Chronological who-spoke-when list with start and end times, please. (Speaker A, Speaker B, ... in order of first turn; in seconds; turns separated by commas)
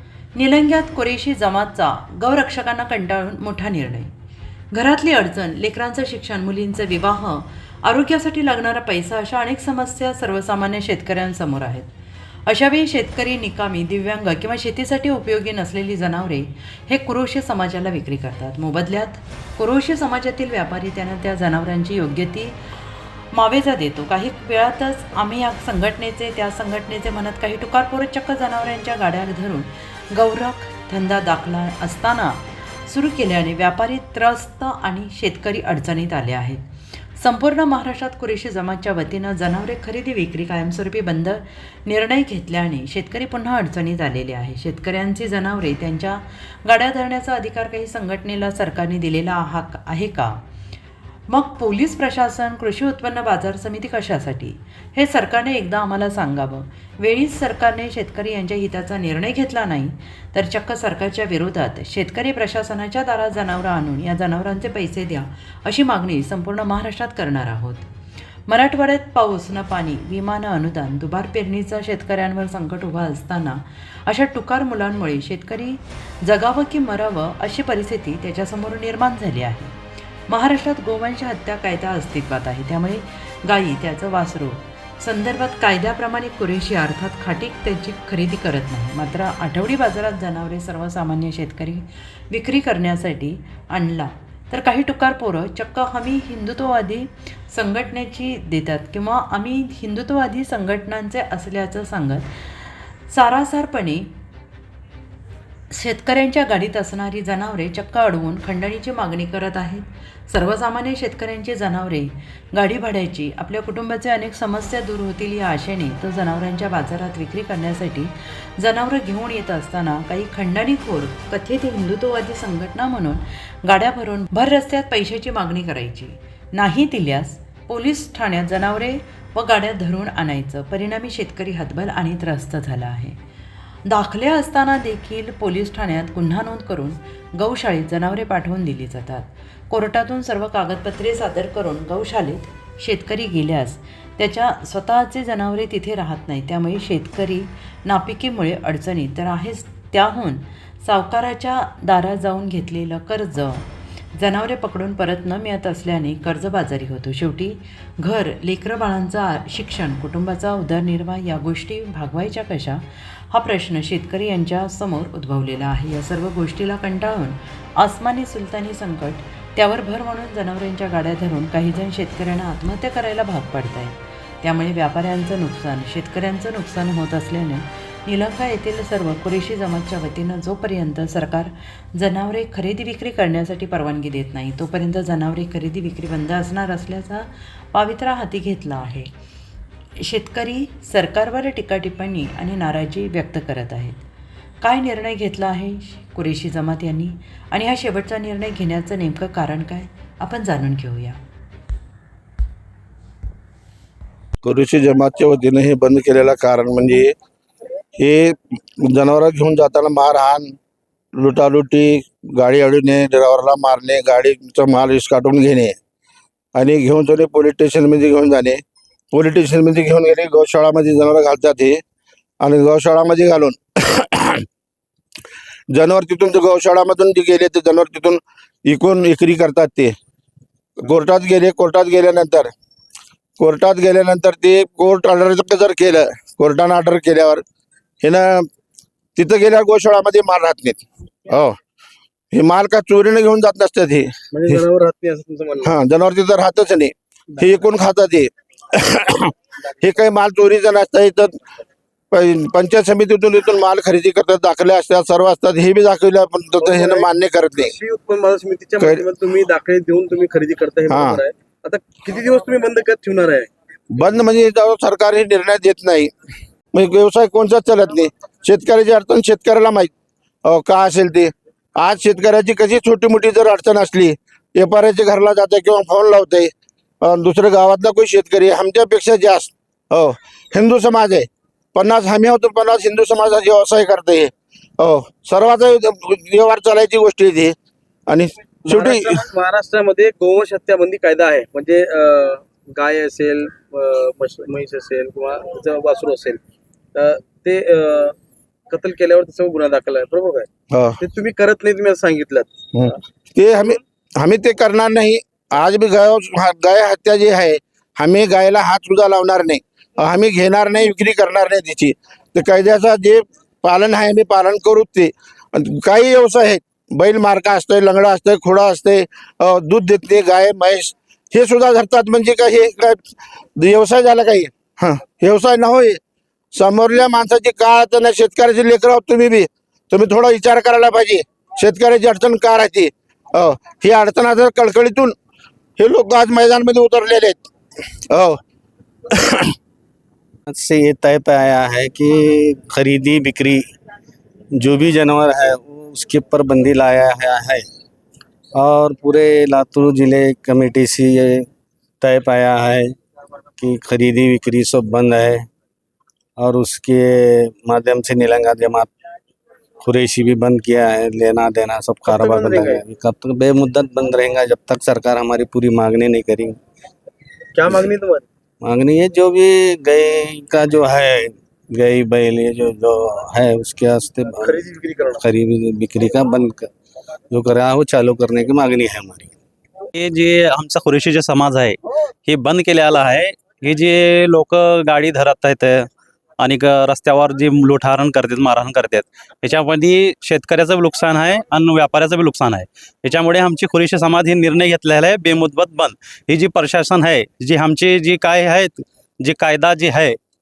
Speaker A: 0.3-4.1, Speaker A: 4.7-11.9, Speaker A: 12.4-22.6, Speaker A: 23.3-36.6, Speaker A: 37.2-50.4, Speaker A: 51.3-67.9, Speaker A: 68.5-79.7, Speaker A: 80.3-104.1, Speaker A: 105.7-133.2, Speaker A: 133.8-189.1, Speaker A: 190.0-194.0, Speaker A: 194.6-201.2, Speaker B: 204.4-207.1, Speaker B: 208.0-210.5, Speaker B: 211.1-215.8, Speaker B: 216.5-218.6, Speaker B: 219.1-221.8, Speaker B: 222.4-224.4, Speaker B: 225.7-229.9, Speaker B: 230.8-232.5, Speaker B: 233.4-237.4, Speaker B: 238.0-238.5, Speaker B: 239.2-241.6, Speaker B: 242.3-244.6, Speaker C: 244.3-245.7, Speaker B: 245.6-251.4, Speaker B: 252.1-257.7, Speaker C: 256.6-263.5, Speaker B: 260.9-261.2, Speaker B: 263.9-266.1, Speaker B: 266.7-269.9, Speaker B: 270.4-287.5, Speaker B: 288.1-289.1, Speaker C: 288.7-296.4, Speaker C: 296.9-298.1, Speaker C: 298.7-300.5, Speaker B: 300.7-301.0, Speaker C: 301.0-302.5, Speaker B: 302.7-323.0, Speaker B: 323.6-326.0, Speaker B: 326.5-335.1, Speaker B: 335.8-337.4, Speaker B: 338.1-338.4, Speaker B: 339.1-339.5, Speaker D: 340.5-343.6, Speaker D: 344.6-347.6, Speaker D: 348.5-351.5, Speaker D: 352.0-352.9, Speaker D: 353.6-355.5, Speaker D: 356.4-358.9, Speaker D: 359.8-366.6, Speaker C: 362.1-362.8, Speaker C: 367.5-368.2, Speaker D: 368.6-376.7, Speaker C: 374.4-375.2, Speaker D: 377.3-379.4, Speaker E: 379.9-385.9, Speaker E: 386.4-400.2